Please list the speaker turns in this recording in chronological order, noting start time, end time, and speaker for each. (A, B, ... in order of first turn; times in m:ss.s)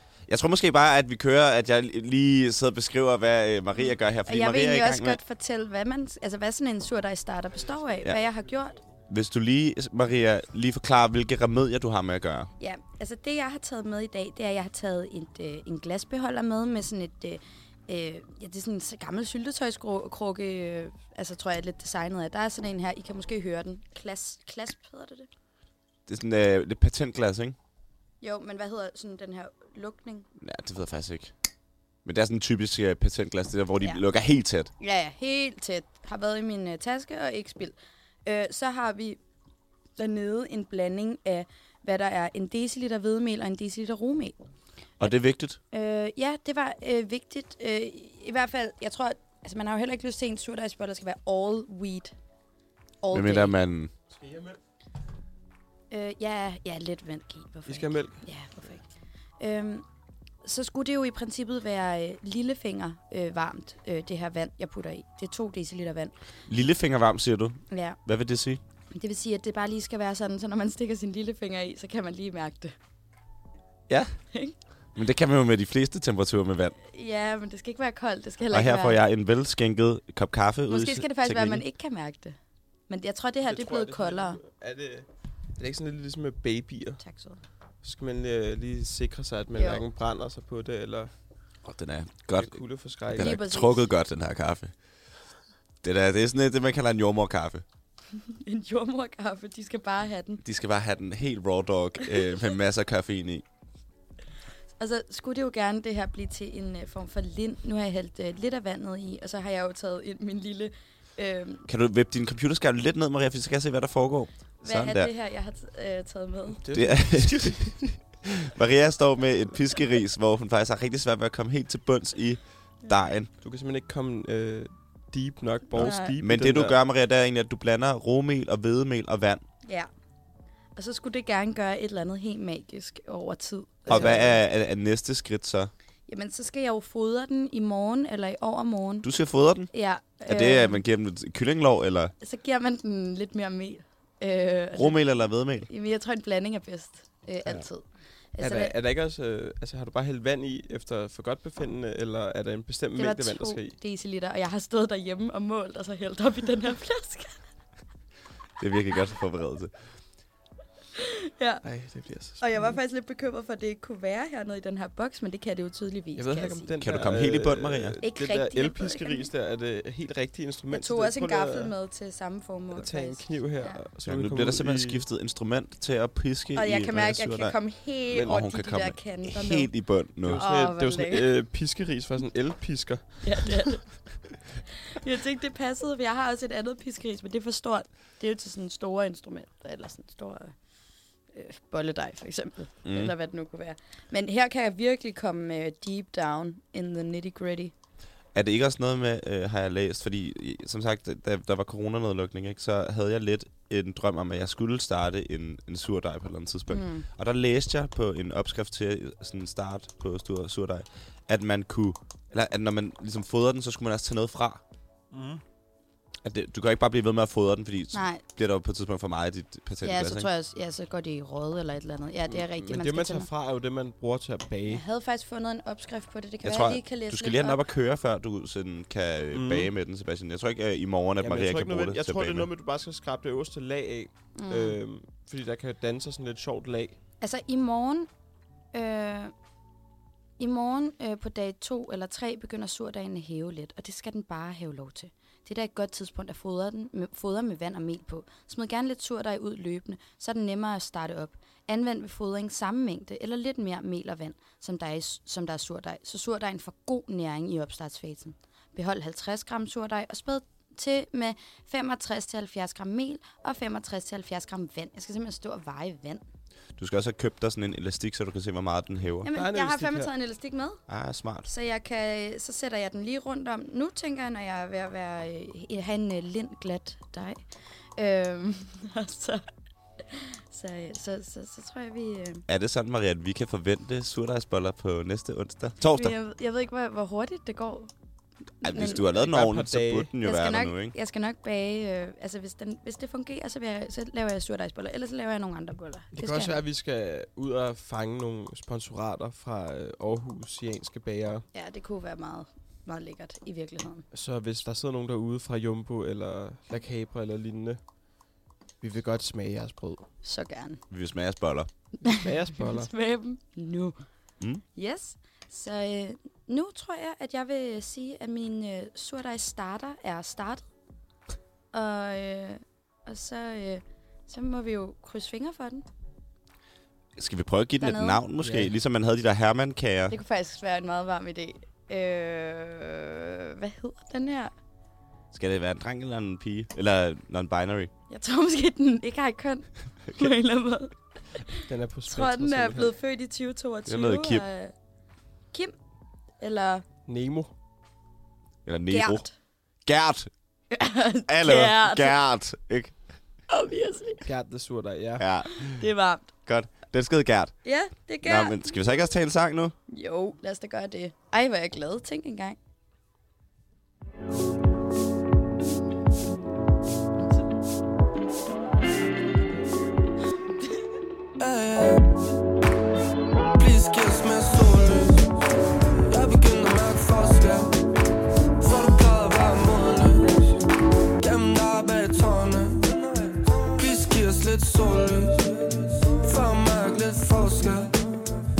0:00.3-0:05.2 A
0:03.9-0:08.8 B
0:09.1-0:12.5 A
0:12.6-0:25.3 B
0:26.1-0:27.6 A
0:28.2-0:30.3 B
0:30.4-0:31.3 A
0:32.0-0:34.7 A
0:34.8-0:37.7 B
0:38.2-0:39.2 B
0:40.0-0:44.4 B
0:45.0-0:45.6 A
0:45.7-0:52.1 B
0:53.0-0:53.6 B
0:53.1-0:53.9 A
0:54.1-0:54.6 C
0:55.9-0:58.8 B
0:57.7-0:58.2 C
0:59.4-0:59.8 B
1:00.4-1:06.1 B
1:06.5-1:08.6 A
1:07.7-1:08.0 B
1:08.9-1:12.7 B
1:13.9-1:14.1 A
1:14.9-1:16.7 A
1:16.9-1:19.0 B
1:18.5-1:21.6 A
1:20.7-1:22.4 B
1:22.9-1:24.4 B
1:23.4-1:27.0 C
1:27.0-1:27.4 B
1:27.8-1:31.1 C
1:29.6-1:29.8 B
1:31.6-1:34.7 A
1:32.4-1:33.4 C
1:33.1-1:33.8 B
1:35.8-1:37.6 A
1:38.3-1:40.4 B
1:40.4-1:43.4 A
1:44.8-1:51.6 B
1:51.7-1:55.1 A
1:54.6-1:56.6 B
1:56.6-1:57.8 C
1:56.7-1:57.8 A
1:58.4-2:03.3 A
2:03.4-2:06.8 C
2:05.8-2:09.4 A
2:05.8-2:06.2 B
2:10.8-2:14.4 B
2:13.9-2:14.3 C
2:13.9-2:15.7 A
2:16.1-2:19.1 B
2:19.0-2:19.7 A
2:19.7-2:20.8 B
2:20.2-2:22.1 A
2:22.2-2:25.0 B
2:24.8-2:25.7 A
2:25.6-2:28.7 B
2:28.4-2:33.8 C
2:33.0-2:37.4 B
2:38.6-2:39.7 A
2:41.0-2:41.6 B
2:41.6-2:42.7 C
2:42.4-2:46.7 B
2:46.2-2:51.7 C
2:46.8-2:48.0 A
2:48.0-2:49.3 B
2:50.7-2:53.8 B
2:52.7-2:55.0 C
2:54.0-2:57.6 A
2:56.5-3:01.3 B
2:58.1-3:00.5 A
3:00.2-3:03.6 C
3:03.2-3:04.2 B
3:04.9-3:10.5 B
3:11.3-3:17.7 B
3:12.8-3:13.1 A
3:18.3-3:34.6 A
3:26.7-3:27.0 B
3:35.1-3:35.4 C
3:36.2-3:40.3 A
3:37.9-3:38.2 B
3:39.8-3:43.3 B
3:42.3-3:44.8 C
3:44.7-3:47.6 B
3:46.4-3:52.5 A
3:49.3-3:49.7 C
3:51.2-3:57.0 C
3:54.3-3:54.8 B
3:57.2-3:58.1 B
3:58.7-3:59.3 B
4:00.4-4:26.2 B
4:26.8-4:29.3 A
4:29.2-4:30.8 B
4:29.3-4:30.1 C
4:30.9-4:31.5 A
4:31.4-4:37.4 B
4:38.0-4:39.4 B
4:40.0-4:42.4 B
4:42.5-4:46.1 A
4:45.9-4:47.9 B
4:48.6-4:49.1 B
4:48.6-4:50.9 A
4:48.8-4:50.1 C
4:50.2-4:56.6 B
4:56.1-5:01.4 C
5:01.5-5:04.0 B
5:04.1-5:07.8 C
5:08.8-5:10.1 C
5:10.2-5:10.8 B
5:10.9-5:11.7 A
5:12.0-5:12.9 C
5:12.0-5:13.9 B
5:14.7-5:20.6 B
5:21.7-5:25.8 B
5:27.2-5:30.2 A
5:27.8-5:28.2 B
5:28.4-5:28.7 C
5:30.1-5:34.5 B
5:35.3-5:37.9 A
5:38.1-5:44.7 B
5:41.6-5:42.9 C
5:43.8-5:44.4 A
5:46.4-5:46.8 B
5:47.0-5:47.5 C
5:48.6-5:49.3 A
5:48.9-5:49.3 B
5:49.8-5:50.3 A
5:50.7-5:52.2 B
5:51.3-5:53.0 A
5:53.5-5:54.3 B
5:54.2-5:55.3 C
5:55.2-5:55.7 A
5:55.6-5:56.3 B
5:56.4-5:57.6 A
5:57.6-5:58.6 B
5:58.2-5:59.8 A
5:59.9-6:02.6 B
6:11.4-6:12.2 D
6:13.6-6:15.3 D
6:16.1-6:17.7 D
6:18.6-6:20.6 D
6:21.2-6:28.0 D